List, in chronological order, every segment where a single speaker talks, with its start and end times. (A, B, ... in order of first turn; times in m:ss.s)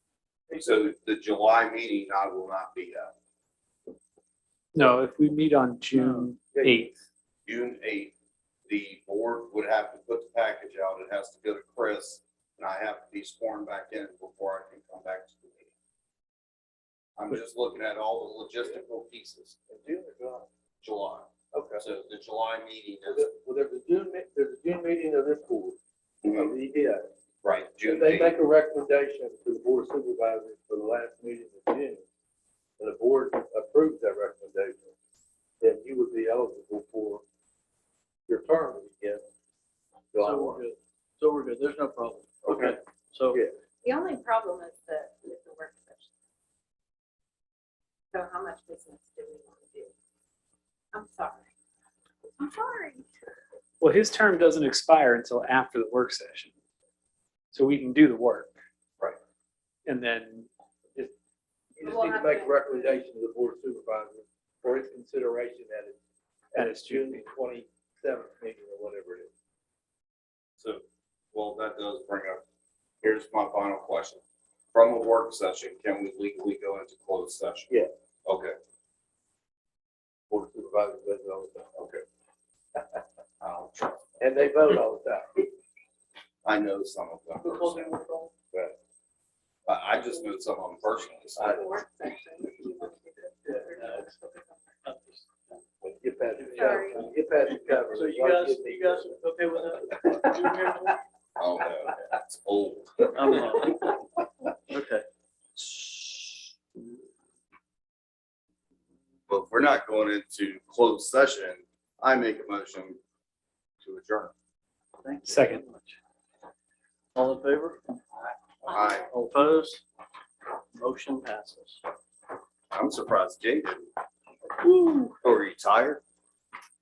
0:00.5-0:00.7 A
0:00.5-0:03.1 B
0:04.7-0:06.9 C
0:05.9-0:06.2 D
0:06.5-0:06.9 A
0:07.5-0:08.1 B
0:08.7-0:15.7 B
0:17.2-0:19.6 B
0:19.7-0:20.5 A
0:20.8-0:23.3 B
0:21.5-0:21.8 A
0:23.0-0:25.8 A
0:26.2-0:26.5 B
0:26.3-0:27.1 A
0:27.4-0:28.3 B
0:27.8-0:32.0 A
0:32.8-0:34.9 A
0:35.6-0:37.2 A
0:38.3-0:39.2 A
0:40.1-0:40.6 A
0:40.2-0:43.4 D
0:42.4-0:43.6 A
0:43.8-0:46.1 E
0:48.1-0:49.9 E
0:50.9-0:51.4 E
0:52.2-0:53.0 E
0:53.8-0:56.5 C
0:57.5-0:58.6 C
0:59.8-1:00.5 C
1:01.8-1:06.0 A
1:01.8-1:03.0 E
1:06.5-1:09.3 A
1:06.5-1:07.2 C
1:10.6-1:12.4 B
1:13.0-1:14.2 B
1:14.7-1:17.7 B
1:18.2-1:18.6 B
1:20.3-1:21.7 A
1:21.8-1:22.0 B
1:23.4-1:24.0 B
1:24.2-1:25.5 A
1:26.4-1:27.9 B
1:27.5-1:28.3 D
1:29.7-1:31.7 B
1:31.4-1:34.5 E
1:33.5-1:34.2 D
1:34.8-1:35.2 D
1:35.8-1:39.2 A
1:36.6-1:37.0 E
1:36.6-1:37.1 D
1:37.6-1:41.0 D
1:41.4-1:43.4 B
1:43.1-1:44.0 D
1:44.7-1:45.0 D
1:45.6-1:46.4 B
1:49.3-1:53.0 B
1:53.8-1:54.3 B
1:55.0-1:56.0 D
1:55.3-1:55.6 C
1:57.1-1:57.8 D
1:58.6-1:59.1 B
1:58.7-1:59.0 E
1:59.1-1:59.8 D
2:00.8-2:01.8 D
2:02.7-2:03.9 B
2:05.2-2:06.0 B